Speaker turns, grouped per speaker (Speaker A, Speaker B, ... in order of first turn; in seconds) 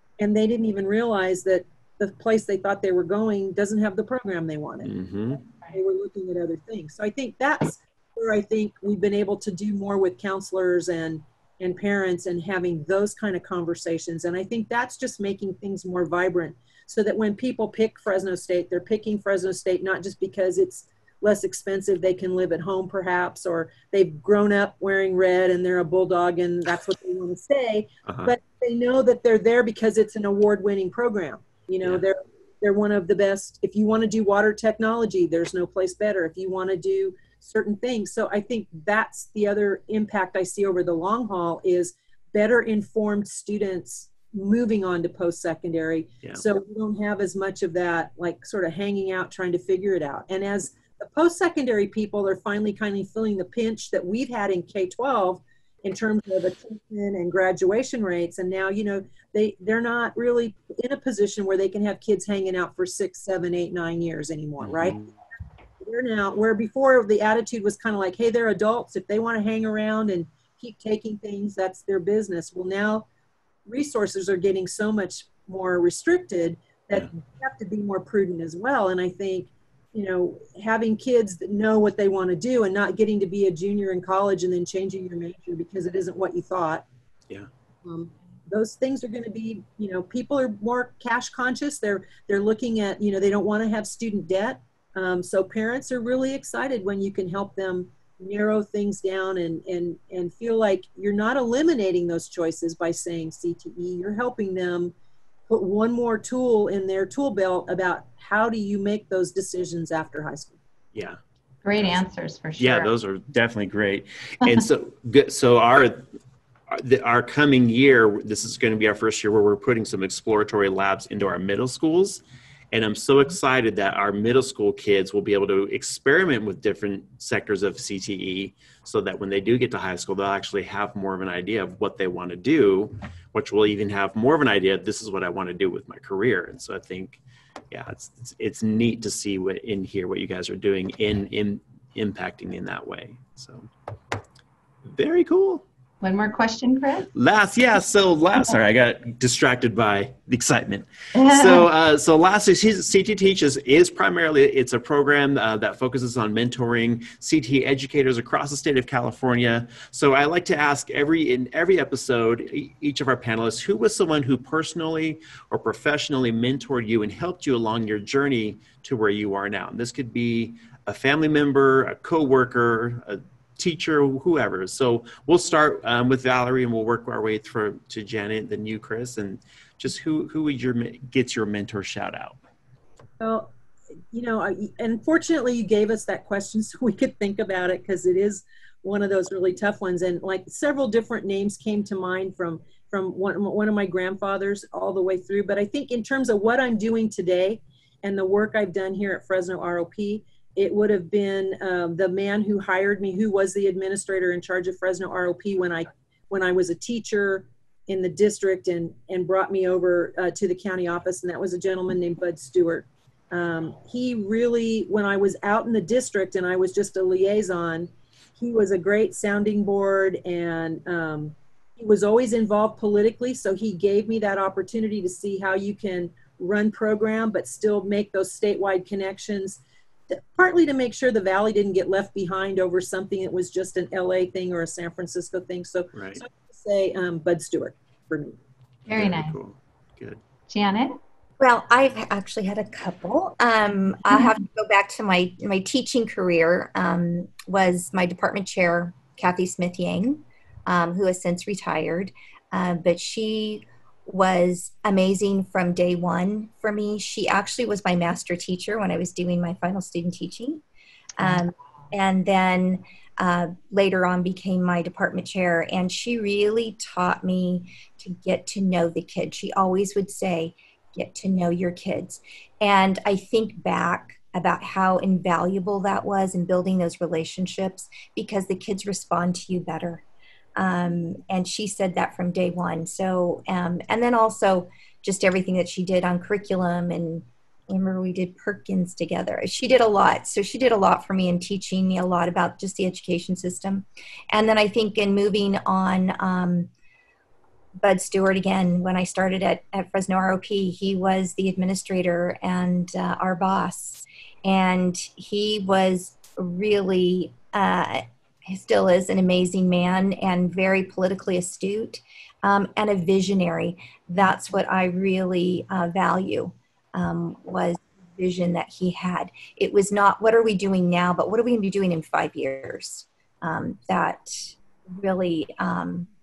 Speaker A: 0.2-4.9, 5.7-65.0, 65.8-73.1, 73.7-86.9, 87.8-104.9, 105.5-110.6, 183.2-183.5, 184.1-238.4
Speaker B: 4.8-5.4, 28.1-28.3, 64.6-65.1, 112.6-116.1, 116.7-137.2, 137.7-143.7, 144.9-145.6, 147.1-182.4, 235.9-236.2, 238.9-240.2
Speaker C: 111.6-112.9, 146.0-147.1, 151.1-151.7, 238.9-239.4, 240.5-241.0
Speaker D: 241.4-260.6, 261.2-280.0, 280.6-296.7, 297.8-326.1